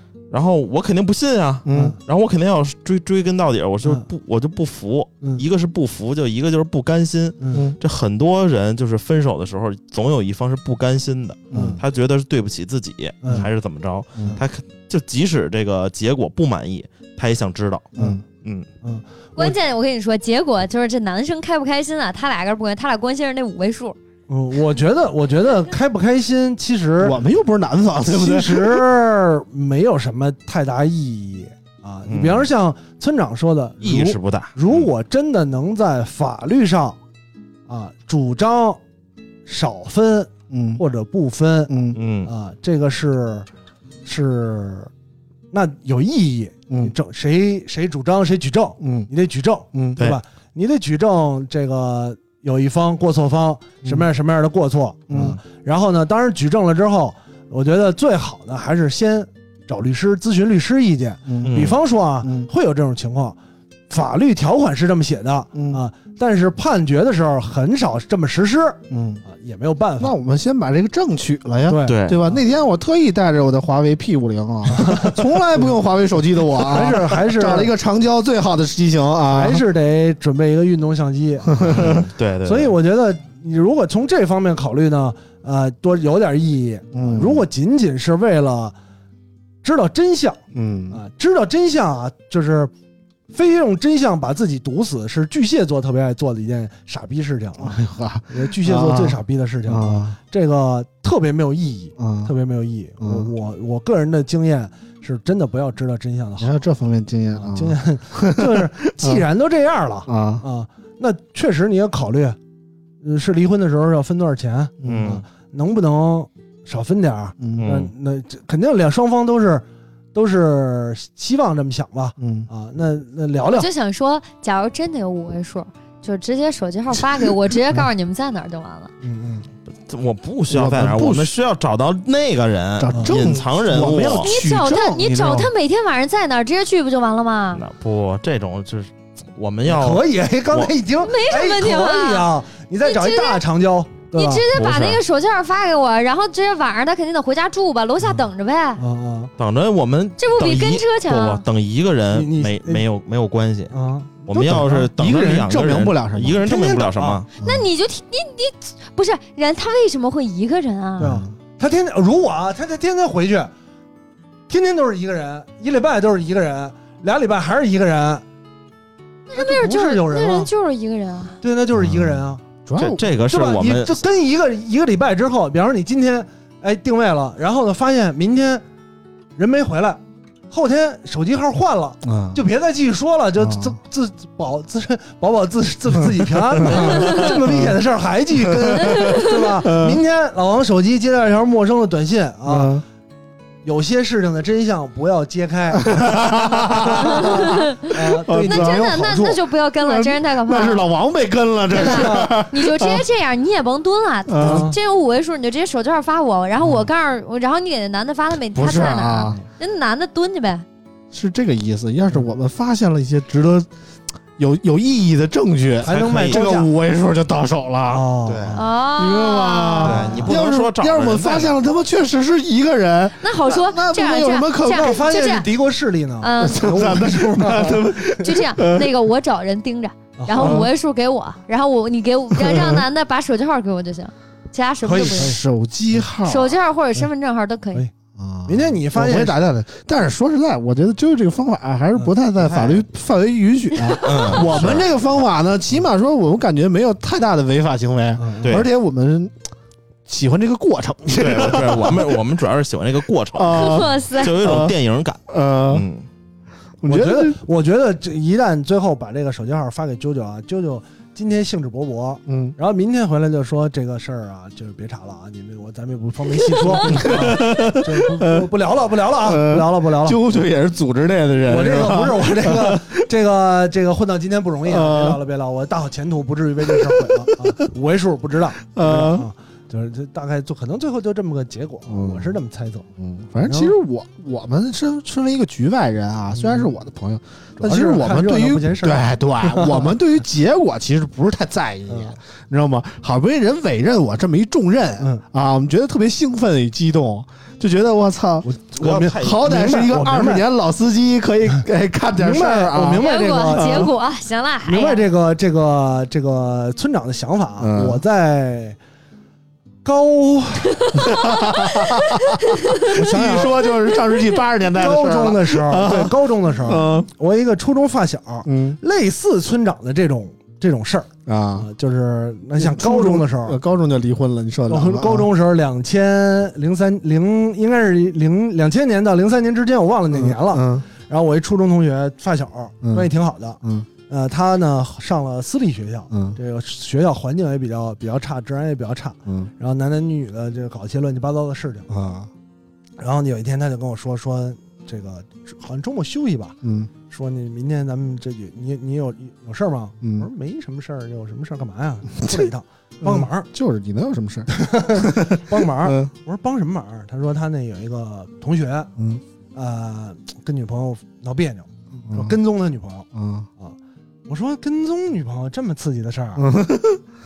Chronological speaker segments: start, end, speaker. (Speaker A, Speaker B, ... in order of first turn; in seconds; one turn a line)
Speaker A: 0.3-18.6
Speaker B: 1.6-2.0
Speaker C: 7.4-7.7
Speaker B: 7.5-7.8
Speaker B: 11.5-11.8
Speaker C: 11.5-11.8
Speaker B: 17.9-18.2
Speaker C: 18.8-19.5
Speaker D: 19.4-23.9
Speaker C: 24.3-27.2
Speaker B: 27.0-28.9
Speaker C: 28.1-37.0
Speaker A: 32.1-32.5
Speaker A: 33.8-34.9
Speaker C: 37.7-38.8
Speaker C: 39.5-41.7
Speaker B: 40.5-40.8
Speaker B: 41.7-42.0
Speaker A: 41.9-42.3
Speaker C: 42.2-43.5
Speaker C: 44.0-44.9
Speaker C: 45.5-63.4
Speaker B: 48.8-49.1
Speaker B: 55.1-55.4
Speaker B: 61.3-61.7
Speaker A: 61.4-61.8
Speaker B: 62.2-62.5
Speaker C: 63.9-70.1
Speaker B: 65.5-65.8
Speaker B: 68.9-69.2
Speaker B: 70.0-79.6
Speaker C: 71.7-72.4
Speaker A: 71.9-72.2
Speaker C: 74.7-75.7
Speaker C: 76.5-77.7
Speaker C: 79.3-88.7
Speaker B: 81.5-82.1
Speaker A: 81.7-82.8
Speaker B: 86.9-87.5
Speaker C: 89.6-92.7
Speaker B: 90.5-91.0
Speaker C: 93.3-97.8
Speaker B: 97.6-100.2
Speaker C: 98.3-106.6
Speaker B: 102.0-102.3
Speaker B: 103.0-103.3
Speaker B: 106.4-109.2
Speaker C: 107.3-112.4
Speaker B: 110.0-110.4
Speaker C: 113.0-123.7
Speaker B: 114.8-115.2
Speaker A: 114.8-115.2
Speaker B: 117.4-117.7
Speaker A: 117.6-117.9
Speaker B: 122.2-122.5
Speaker D: 123.5-128.9
Speaker C: 129.0-129.5
Speaker A: 129.7-134.3
Speaker B: 130.5-131.3
Speaker B: 132.8-135.5
Speaker C: 132.9-133.3
Speaker D: 134.1-137.6
Speaker C: 135.1-135.4
Speaker A: 137.5-140.7
Speaker C: 139.7-144.4
Speaker D: 141.0-142.2
Speaker D: 142.8-143.4
Speaker D: 144.1-148.8
Speaker A: 144.5-145.0
Speaker C: 148.8-149.3
Speaker A: 149.4-153.7
Speaker D: 150.2-151.4
Speaker C: 152.1-152.8
Speaker C: 153.7-154.9
Speaker A: 154.3-157.2
Speaker B: 154.5-156.4
Speaker C: 156.4-157.2
Speaker D: 157.4-161.2
Speaker B: 157.4-157.7
Speaker B: 161.0-161.3
Speaker C: 161.0-163.5
Speaker C: 164.5-168.2
Speaker D: 169.3-171.4
Speaker C: 169.3-170.5
Speaker C: 171.4-172.4
Speaker B: 171.7-173.0
Speaker A: 172.8-174.0
Speaker C: 173.2-178.6
Speaker C: 179.4-192.8
Speaker B: 182.0-182.4
Speaker B: 183.4-183.8
Speaker B: 186.0-187.8
Speaker B: 188.4-190.0
Speaker D: 188.8-189.3
Speaker B: 192.4-192.8
Speaker C: 193.6-199.4
Speaker B: 195.7-199.2
Speaker D: 197.0-200.8
Speaker B: 199.8-203.0
Speaker D: 201.7-210.6
Speaker C: 201.7-202.3
Speaker B: 204.3-204.7
Speaker C: 204.4-204.8
Speaker B: 208.5-209.4
Speaker B: 211.1-213.7
Speaker B: 214.4-225.2
Speaker C: 215.8-216.7
Speaker A: 215.8-216.5
Speaker C: 217.9-218.6
Speaker A: 218.3-218.6
Speaker D: 218.5-220.1
Speaker A: 219.8-221.6
Speaker D: 223.2-225.5
Speaker C: 224.7-228.0
Speaker D: 226.2-226.8
Speaker B: 226.4-228.9
Speaker D: 228.1-235.4
Speaker C: 230.2-230.7
Speaker B: 230.3-230.7
Speaker B: 232.3-232.8
Speaker C: 234.8-235.4
Speaker B: 234.9-236.6
Speaker D: 236.2-237.8
Speaker B: 238.2-249.3
Speaker C: 238.5-239.3
Speaker C: 241.9-242.6
Speaker A: 244.0-244.8
Speaker C: 248.2-248.5
Speaker B: 250.1-252.2
Speaker A: 251.1-256.1
Speaker B: 253.3-254.7
Speaker D: 253.5-254.3
Speaker B: 255.3-255.8
Speaker B: 256.8-257.4
Speaker C: 256.9-270.2
Speaker B: 262.3-262.6
Speaker B: 266.7-268.5
Speaker B: 269.2-273.0
Speaker C: 271.5-282.9
Speaker B: 274.6-275.2
Speaker B: 276.6-277.5
Speaker B: 278.7-279.3
Speaker B: 281.9-282.4
Speaker B: 283.0-303.9
Speaker C: 283.4-283.7
Speaker C: 286.3-286.7
Speaker C: 287.6-289.9
Speaker C: 291.9-292.2
Speaker C: 298.4-300.4
Speaker A: 298.8-299.5
Speaker C: 302.1-303.9
Speaker D: 302.9-305.0
Speaker C: 304.6-308.8
Speaker B: 307.6-308.0
Speaker C: 309.8-310.9
Speaker D: 310.8-313.0
Speaker B: 310.9-317.1
Speaker C: 312.9-313.6
Speaker C: 314.7-323.6
Speaker B: 318.4-318.8
Speaker B: 321.2-321.7
Speaker B: 322.6-325.3
Speaker C: 324.7-341.9
Speaker B: 330.1-330.8
Speaker B: 332.8-333.1
Speaker B: 333.6-333.9
Speaker B: 336.1-336.4
Speaker B: 339.2-339.5
Speaker B: 341.9-342.3
Speaker C: 343.0-353.5
Speaker B: 346.6-346.9
Speaker B: 350.0-350.3
Speaker B: 352.2-352.5
Speaker B: 353.0-356.1
Speaker C: 354.5-358.9
Speaker B: 359.0-359.2
Speaker C: 359.5-363.1
Speaker B: 362.0-362.4
Speaker B: 363.1-363.5
Speaker C: 364.3-366.4
Speaker B: 366.4-367.0